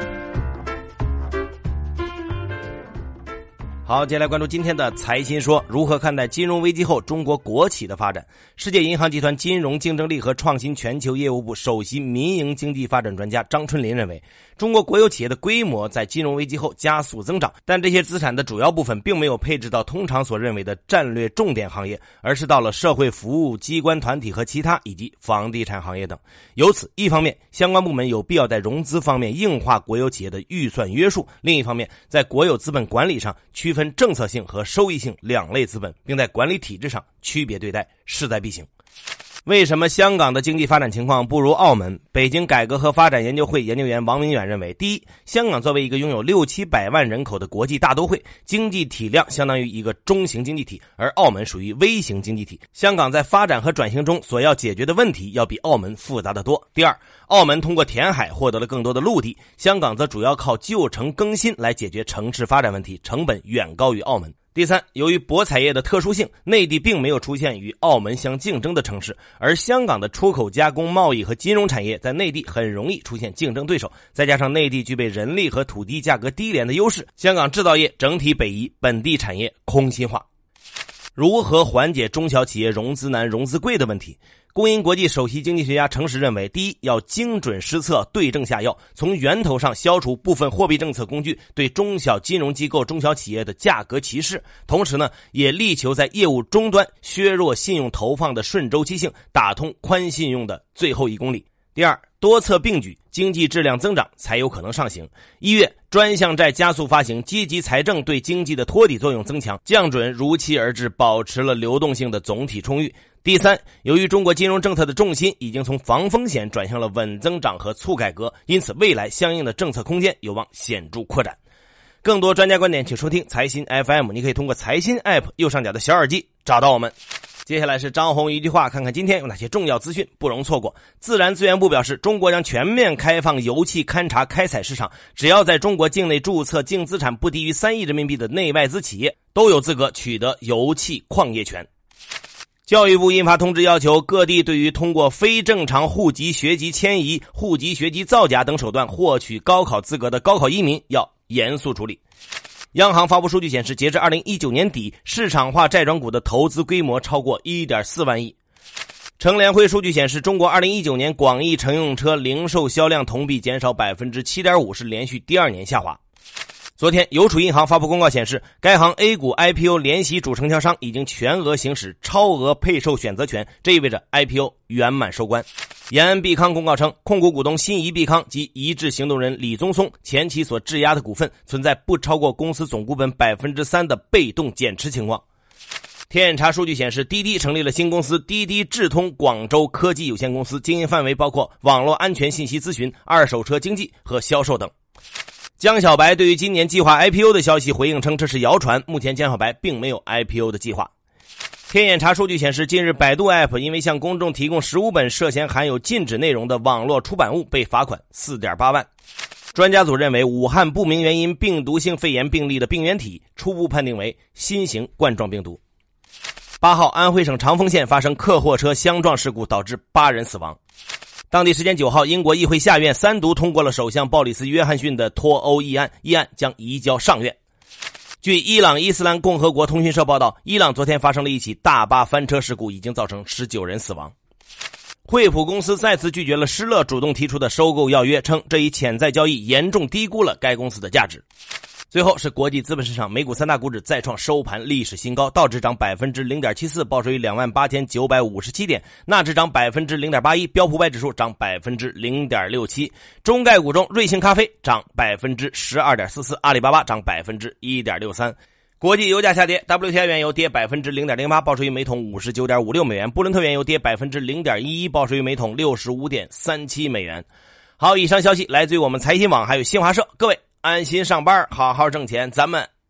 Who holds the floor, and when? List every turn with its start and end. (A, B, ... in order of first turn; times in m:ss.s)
0:03.8-0:38.7 A
0:39.4-1:20.2 A
1:21.2-2:01.4 A
2:02.0-2:06.9 A
2:07.4-2:21.7 A
2:22.7-2:32.0 A
2:32.7-2:38.4 A
2:39.2-2:46.0 A
2:46.8-3:05.2 A
3:06.1-3:14.7 A
3:15.6-3:20.9 A
3:21.7-3:28.9 A
3:29.5-3:35.6 A
3:36.6-3:40.6 A
3:41.3-3:47.4 A
3:48.2-3:54.1 A
3:55.0-4:01.2 A
4:01.9-4:27.2 A
4:27.8-4:32.7 A